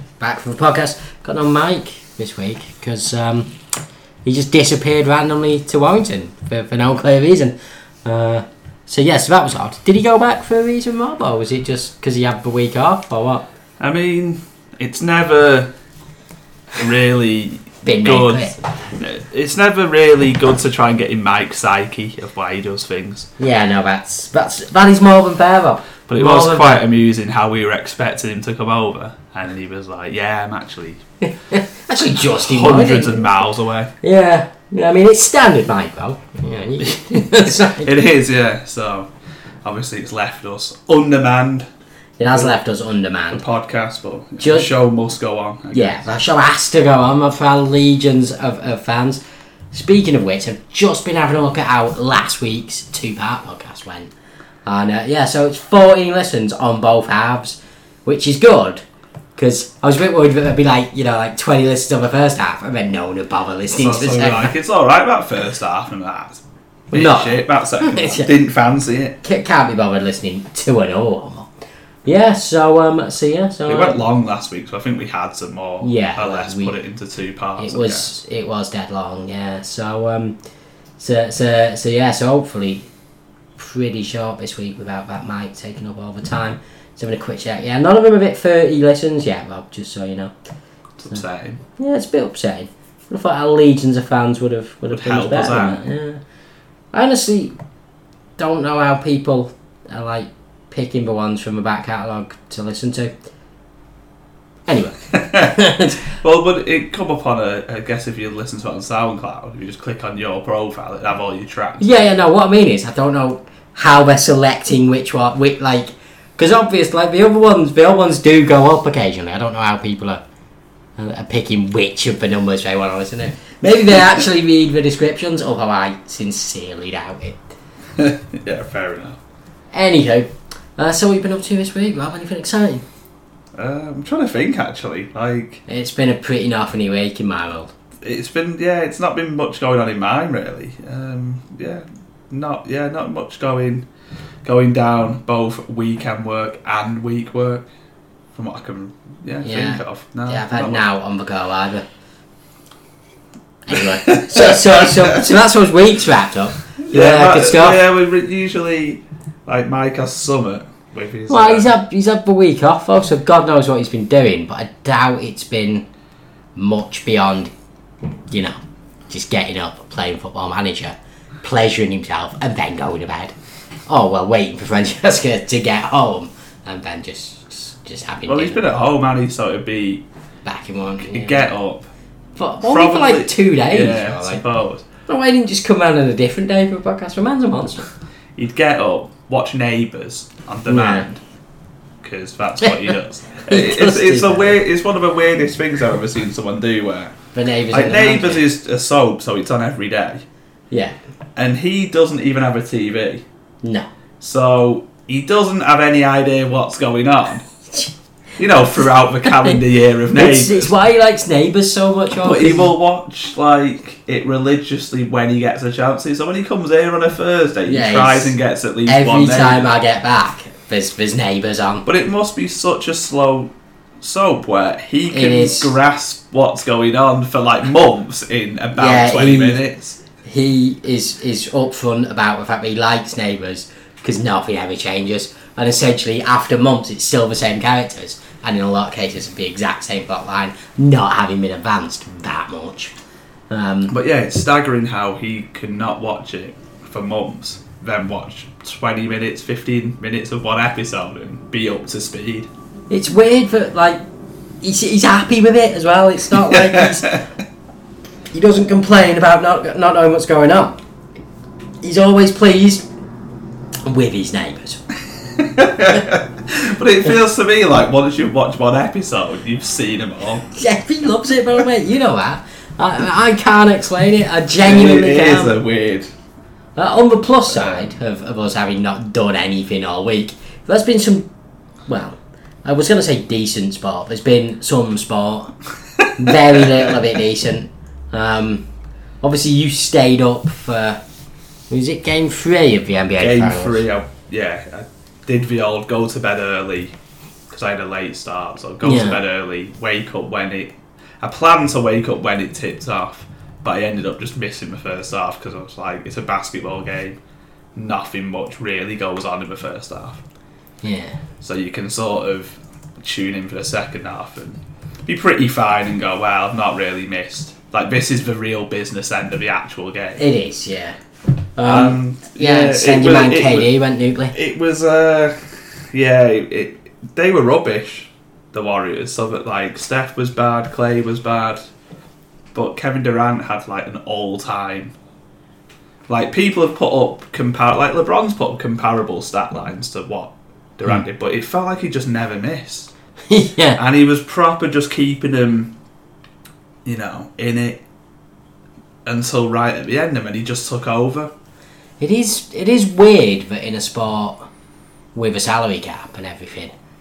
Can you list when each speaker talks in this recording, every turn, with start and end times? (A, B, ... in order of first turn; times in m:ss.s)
0:00.2-0:03.5 A
0:04.2-0:13.5 A
0:13.8-0:15.7 B
0:16.7-0:23.3 B
0:17.8-0:18.6 A
0:23.4-0:26.8 A
0:26.1-0:31.0 B
0:31.5-0:33.3 A
0:32.3-0:33.9 B
0:34.0-0:37.9 A
0:37.8-0:39.1 B
0:39.6-0:41.7 B
0:42.2-0:43.4 A
0:42.2-0:42.5 B
0:43.3-0:46.0 B
0:44.4-0:44.7 A
0:45.7-0:49.2 A
0:49.7-0:54.1 A
0:54.6-0:58.8 A
0:59.4-1:04.5 A
1:03.7-1:09.2 B
1:06.9-1:08.3 A
1:09.2-1:11.5 A
1:12.0-1:14.0 A
1:13.6-1:18.1 B
1:15.8-1:16.8 A
1:17.6-1:20.4 A
1:21.0-1:22.9 A
1:23.6-1:30.3 A
1:31.0-1:31.6 B
1:31.8-1:36.2 A
1:34.9-1:35.8 B
1:36.9-1:37.5 A
1:38.4-1:43.1 A
1:44.7-1:46.1 A
1:45.1-1:45.5 B
1:46.0-1:52.1 B
1:51.8-2:00.2 A
2:01.0-2:07.4 A
2:08.0-2:09.2 B
2:09.7-2:12.8 A
2:13.5-2:15.6 B
2:15.7-2:17.7 A
2:18.0-2:23.8 B
2:24.4-2:27.7 B
2:28.3-2:30.8 B
2:29.4-2:31.8 A
2:33.6-2:37.8 A
2:33.7-2:35.2 B
2:36.8-2:41.7 B
2:41.3-2:45.8 A
2:46.6-2:47.5 A
2:48.3-2:48.6 A
2:49.1-2:53.3 A
2:53.9-2:58.6 A
2:58.2-3:00.0 B
3:00.4-3:01.4 A
3:01.0-3:01.9 B
3:02.4-3:04.4 A
3:02.6-3:04.8 B
3:05.1-3:07.9 A
3:08.4-3:11.2 B
3:10.7-3:11.1 A
3:12.0-3:17.1 B
3:13.4-3:14.6 A
3:17.3-3:18.4 A
3:17.7-3:20.2 B
3:21.4-3:23.2 B
3:24.2-3:27.4 B
3:28.4-3:30.7 B
3:29.2-3:29.6 A
3:30.1-3:32.7 A
3:32.2-3:39.7 B
3:37.7-3:38.3 A
3:38.8-3:41.8 A
3:41.8-3:50.0 B
3:45.1-3:45.7 A
3:48.7-3:49.6 A
3:50.2-4:02.9 A
4:03.5-4:03.9 A
4:03.9-4:12.5 B
4:12.9-4:14.0 A
4:14.6-4:17.2 A
4:16.3-4:17.3 B
4:18.3-4:20.8 A
4:21.8-4:22.8 A
4:23.8-4:24.8 A
4:25.3-4:30.4 B
4:30.5-4:35.6 A
4:34.6-4:36.1 B
4:36.8-4:41.3 A
4:37.5-4:37.8 B
4:41.9-4:45.5 A
4:46.0-4:46.3 B
4:46.1-4:48.6 A
4:49.2-4:51.0 A
4:51.7-4:53.8 A
4:53.2-4:57.0 B
4:57.5-5:07.2 B
4:58.8-4:59.2 A
5:07.7-5:10.2 B
5:10.8-5:11.2 A
5:11.4-5:20.2 B
5:20.2-5:21.0 A
5:21.6-5:24.4 A
5:21.6-5:23.7 B
5:24.3-5:31.6 B
5:32.5-5:34.9 B
5:36.1-5:42.9 B
5:43.3-5:43.8 A
5:43.8-5:45.7 B
5:46.8-5:47.8 B
5:49.0-5:51.3 B
5:52.0-5:54.5 A
5:55.1-5:56.7 A